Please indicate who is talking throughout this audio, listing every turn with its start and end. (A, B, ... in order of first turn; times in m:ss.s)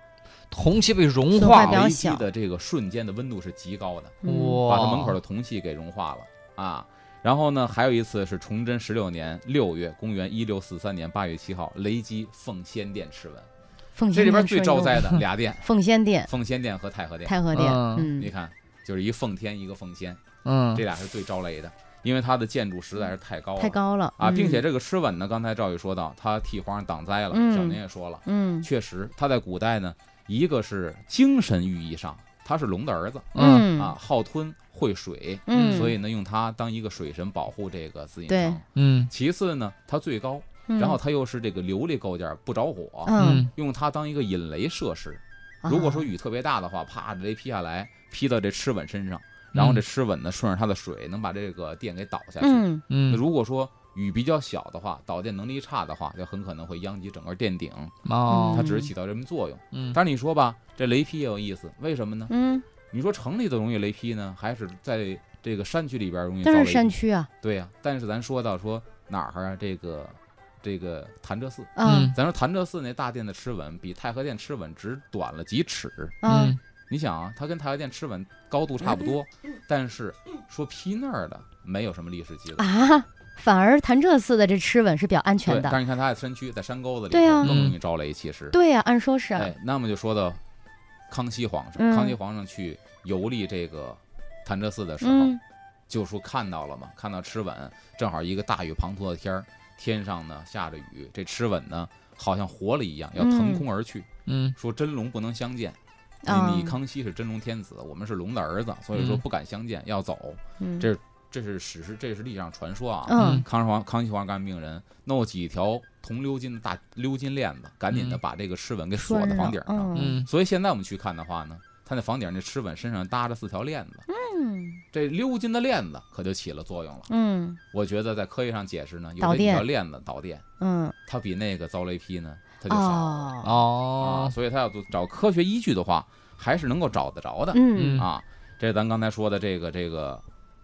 0:00.5-0:01.9 A
0:01.4-0:02.2 B
0:01.4-0:13.5 C
0:04.2-0:04.6 B
0:04.2-0:05.2 A
0:14.0-0:16.3 B
0:14.1-0:15.7 C
0:16.3-0:17.4 C
0:17.3-0:18.3 B
0:17.5-0:18.1 A
0:18.2-0:20.2 C
0:20.4-0:20.8 A
0:20.7-0:57.9 C
0:23.6-0:24.6 B
0:27.3-0:28.7 B
0:33.3-0:33.7 A
0:33.4-0:34.0 B
0:35.5-0:35.9 B
0:35.5-0:35.9 A
0:38.3-0:38.6 B
0:38.8-0:39.1 A
0:40.7-0:41.0 B
0:43.1-0:43.5 B
0:43.2-0:43.5 A
0:45.6-0:46.1 B
0:49.5-0:49.8 A
0:52.4-0:52.8 B
0:52.9-0:53.2 A
0:58.0-0:58.7 A
0:58.3-0:58.9 B
0:58.5-1:02.3 C
1:02.3-1:02.6 B
1:02.9-1:16.2 C
1:06.4-1:07.3 B
1:11.8-1:12.1 B
1:11.8-1:12.2 A
1:16.2-1:16.6 B
1:16.2-1:16.6 A
1:16.9-1:22.6 C
1:22.6-1:25.8 B
1:25.4-1:28.6 C
1:27.1-1:27.7 B
1:27.4-1:27.8 A
1:28.5-1:29.5 B
1:29.4-1:30.4 C
1:31.1-1:35.4 C
1:31.8-1:32.2 B
1:35.0-1:35.4 B
1:35.9-2:04.0 C
1:43.2-1:43.6 B
1:44.3-1:44.6 A
1:46.2-1:46.8 B
1:49.0-1:49.2 A
1:50.6-1:50.9 B
1:53.1-1:53.4 B
1:53.1-1:53.5 A
1:57.9-1:58.2 A
1:59.0-2:00.2 B
1:59.9-2:00.3 A
2:04.1-2:04.8 B
2:04.9-2:07.1 C
2:07.1-2:07.6 B
2:07.7-2:10.4 C
2:09.2-2:09.6 B
2:10.6-2:11.0 B
2:11.1-2:13.3 C
2:12.7-2:13.6 B
2:13.4-2:14.4 A
2:14.0-2:20.2 C
2:17.5-2:18.0 B
2:17.7-2:18.1 A